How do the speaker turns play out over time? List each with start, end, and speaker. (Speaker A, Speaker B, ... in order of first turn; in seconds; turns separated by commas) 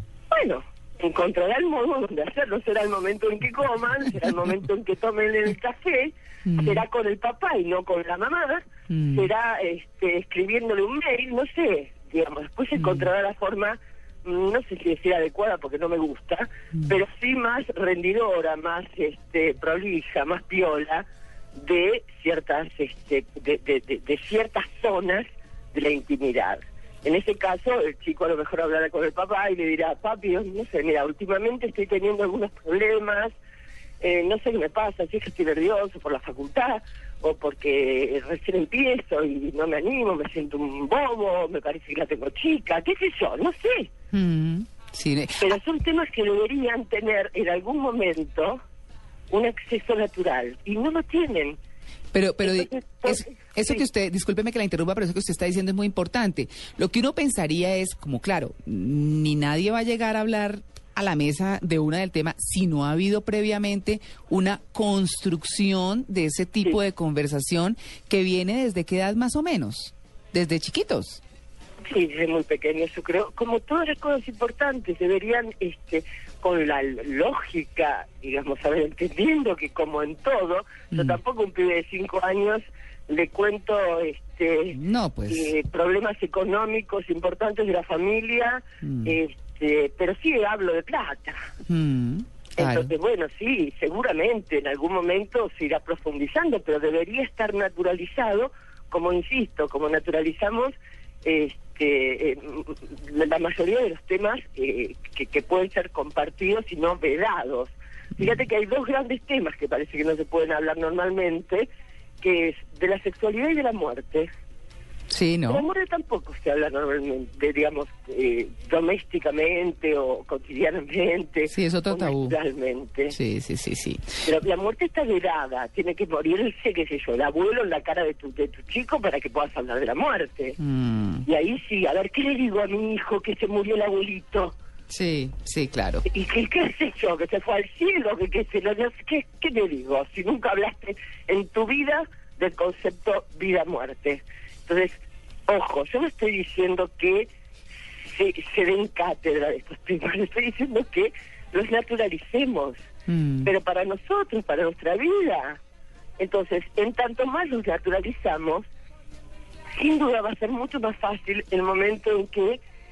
Speaker A: 0.3-21.0, Speaker B: 6.5-6.8, Speaker B: 8.9-9.3, Speaker B: 12.8-13.1, Speaker A: 21.6-33.3, Speaker A: 34.0-43.9, Speaker B: 44.1-45.5, Speaker A: 45.4-48.6, Speaker A: 49.3-51.6, Speaker B: 52.1-71.2, Speaker A: 52.4-53.9, Speaker A: 71.9-84.8, Speaker B: 80.9-81.2, Speaker B: 84.7-85.5, Speaker A: 85.3-91.5, Speaker B: 88.8-89.2, Speaker B: 91.7-92.9, Speaker A: 92.6-111.7, Speaker A: 112.2-114.3, Speaker B: 115.1-115.7, Speaker A: 115.5-123.2, Speaker B: 121.5-122.4, Speaker B: 123.1-124.0, Speaker A: 124.2-130.6, Speaker B: 130.6-131.2, Speaker A: 131.2-134.5, Speaker B: 134.9-136.0, Speaker A: 136.1-147.3, Speaker A: 148.1-152.8, Speaker B: 153.1-153.5, Speaker A: 153.4-155.6, Speaker A: 156.2-158.7, Speaker A: 159.7-162.6